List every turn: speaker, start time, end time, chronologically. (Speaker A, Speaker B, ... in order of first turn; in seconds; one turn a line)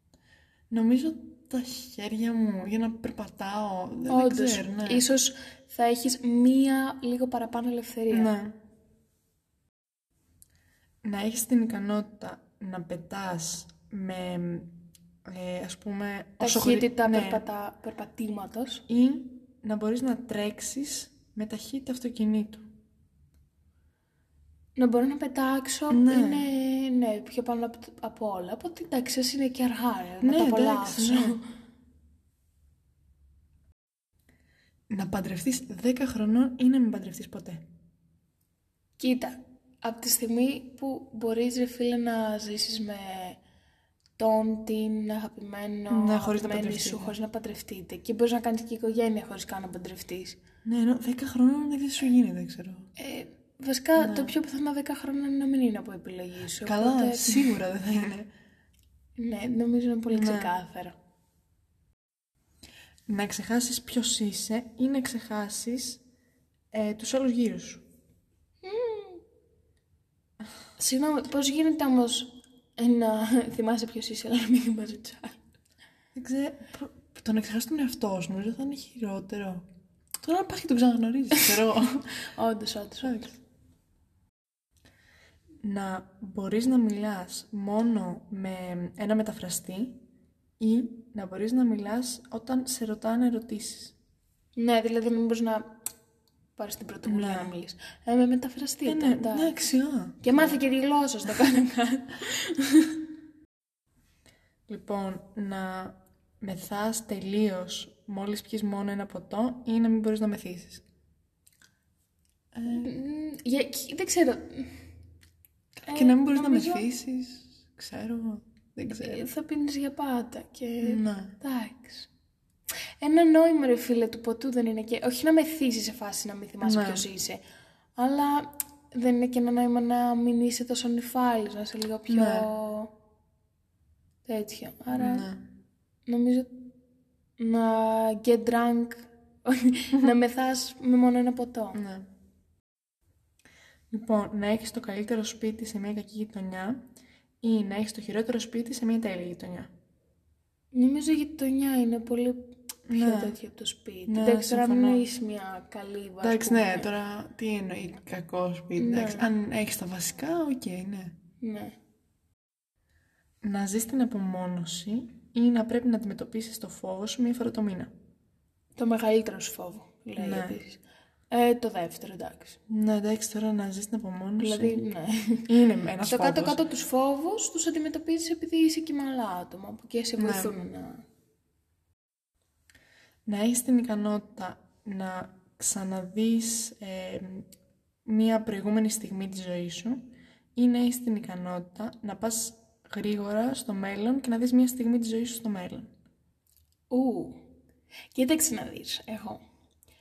Speaker A: 0.7-5.0
Speaker B: 4.1-8.3
Speaker A: 8.1-8.6
Speaker A: 11.0-14.7
Speaker A: 15.2-17.4
Speaker B: 16.4-18.9
Speaker A: 18.9-22.6
Speaker B: 24.8-31.4
Speaker A: 25.9-26.5
Speaker A: 30.2-31.4
Speaker A: 34.9-37.6
Speaker B: 39.0-43.4
Speaker B: 44.2-50.4
Speaker A: 45.9-47.1
Speaker A: 50.6-52.9
Speaker B: 53.0-57.5
Speaker A: 54.0-54.3
Speaker A: 56.6-58.3
Speaker B: 59.2-61.0
Speaker A: 60.1-60.5
Speaker A: 63.1-66.0
Speaker A: 66.7-67.8
Speaker B: 68.6-69.2
Speaker B: 70.8-75.4
Speaker A: 76.2-79.7
Speaker A: 80.2-82.1
Speaker B: 82.2-83.3
Speaker A: 83.0-83.4
Speaker A: 85.6-90.0
Speaker A: 90.6-94.0
Speaker B: 94.6-95.8
Speaker B: 96.6-103.0
Speaker A: 97.1-97.5
Speaker A: 98.9-100.6
Speaker A: 104.7-110.8
Speaker A: 112.5-112.9
Speaker B: 112.7-114.8
Speaker B: 115.8-116.9
Speaker A: 115.9-119.3
Speaker B: 118.9-122.1
Speaker A: 120.8-121.3
Speaker B: 123.0-127.4
Speaker A: 126.6-127.0
Speaker B: 128.0-132.9
Speaker A: 132.1-132.5
Speaker B: 134.3-135.3
Speaker A: 134.9-135.5
Speaker B: 136.1-136.7
Speaker B: 137.4-141.8
Speaker A: 141.8-142.1
Speaker A: 143.9-146.8
Speaker A: 147.4-149.7
Speaker B: 150.7-156.9
Speaker A: 152.9-153.4
Speaker A: 154.1-155.1
Speaker A: 156.2-161.2
Speaker B: 158.8-159.3
Speaker B: 161.4-161.7
Speaker A: 163.4-167.9
Speaker B: 168.8-170.8
Speaker A: 170.2-170.6
Speaker B: 171.3-172.6
Speaker A: 172.7-174.8
Speaker B: 174.4-175.5
Speaker A: 175.5-176.6
Speaker B: 176.0-181.0
Speaker A: 180.2-180.5
Speaker A: 183.3-187.5
Speaker A: 188.1-195.9
Speaker B: 196.9-197.4
Speaker B: 198.1-199.4